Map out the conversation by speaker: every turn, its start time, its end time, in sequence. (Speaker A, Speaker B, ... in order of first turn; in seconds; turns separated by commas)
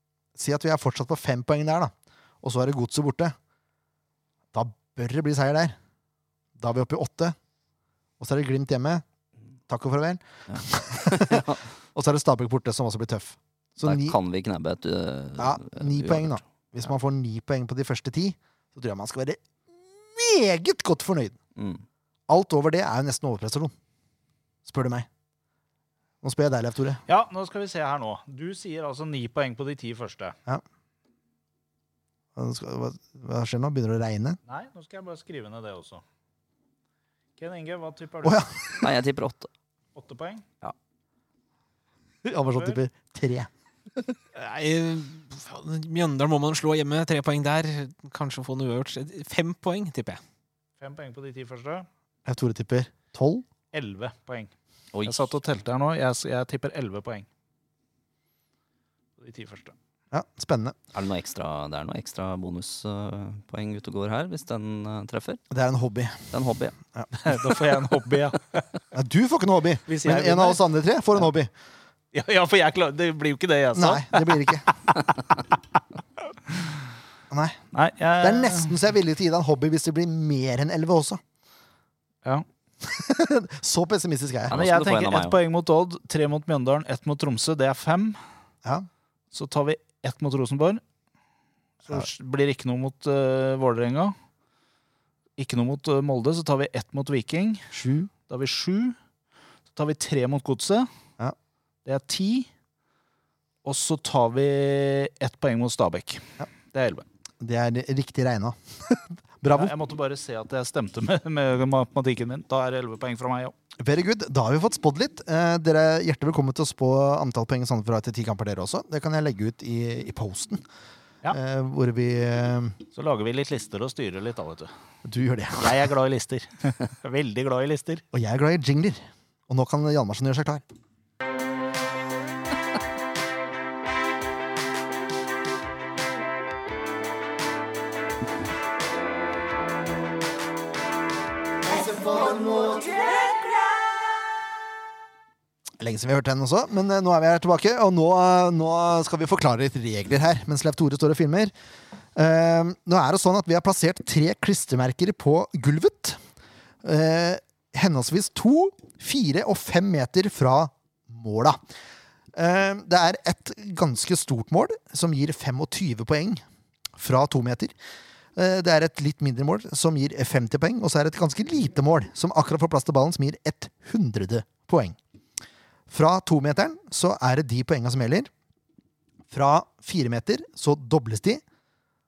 Speaker A: 0.3-3.4, Speaker A: 4.5-5.8, Speaker A: 6.6-7.4, Speaker A: 8.2-9.0, Speaker A: 9.7-14.2, Speaker B: 10.5-11.6, Speaker B: 13.8-16.4, Speaker A: 15.4-21.4, Speaker B: 21.6-21.9, Speaker A: 22.3-23.7, Speaker A: 24.6-25.1, Speaker A: 26.2-27.0, Speaker C: 27.1-30.4, Speaker A: 32.4-34.4, Speaker C: 34.5-36.0, Speaker C: 37.4-38.9, Speaker A: 38.2-38.5, Speaker B: 38.8-39.5, Speaker C: 39.9-40.5, Speaker A: 42.2-43.5, Speaker D: 44.3-50.2, Speaker C: 50.8-51.9, Speaker A: 52.3-53.5, Speaker C: 53.7-54.5, Speaker B: 54.9-55.2, Speaker C: 55.0-57.3, Speaker C: 59.2-59.7, Speaker A: 60.1-60.8, Speaker B: 60.9-65.4, Speaker A: 65.5-66.3, Speaker B: 66.3-66.8, Speaker C: 67.1-68.7, Speaker A: 68.9-71.5, Speaker C: 69.9-70.6, Speaker C: 72.1-74.5, Speaker A: 73.7-74.7, Speaker A: 77.3-77.6, Speaker C: 77.7-78.8, Speaker A: 78.2-81.2, Speaker A: 82.8-84.6, Speaker B: 84.5-85.3, Speaker C: 84.5-88.2, Speaker C: 89.3-90.8, Speaker C: 91.8-94.2, Speaker C: 95.4-97.7, Speaker A: 97.7-98.1, Speaker C: 98.3-99.0, Speaker C: 99.7-100.9, Speaker C: 101.8-102.5, Speaker C: 103.6-107.0, Speaker A: 107.4-109.8, Speaker C: 109.5-113.5, Speaker A: 113.8-120.6, Speaker A: 121.3-122.8, Speaker C: 122.9-124.7, Speaker A: 125.0-125.8, Speaker C: 125.6-128.0, Speaker A: 128.1-130.6, Speaker A: 145.8-151.5, Speaker A: 152.2-156.2, Speaker A: 156.8-161.6, Speaker A: 162.3-166.4, Speaker A: 166.9-167.7, Speaker A: 168.4-175.0, Speaker A: 175.9-178.3, Speaker A: 179.3-181.4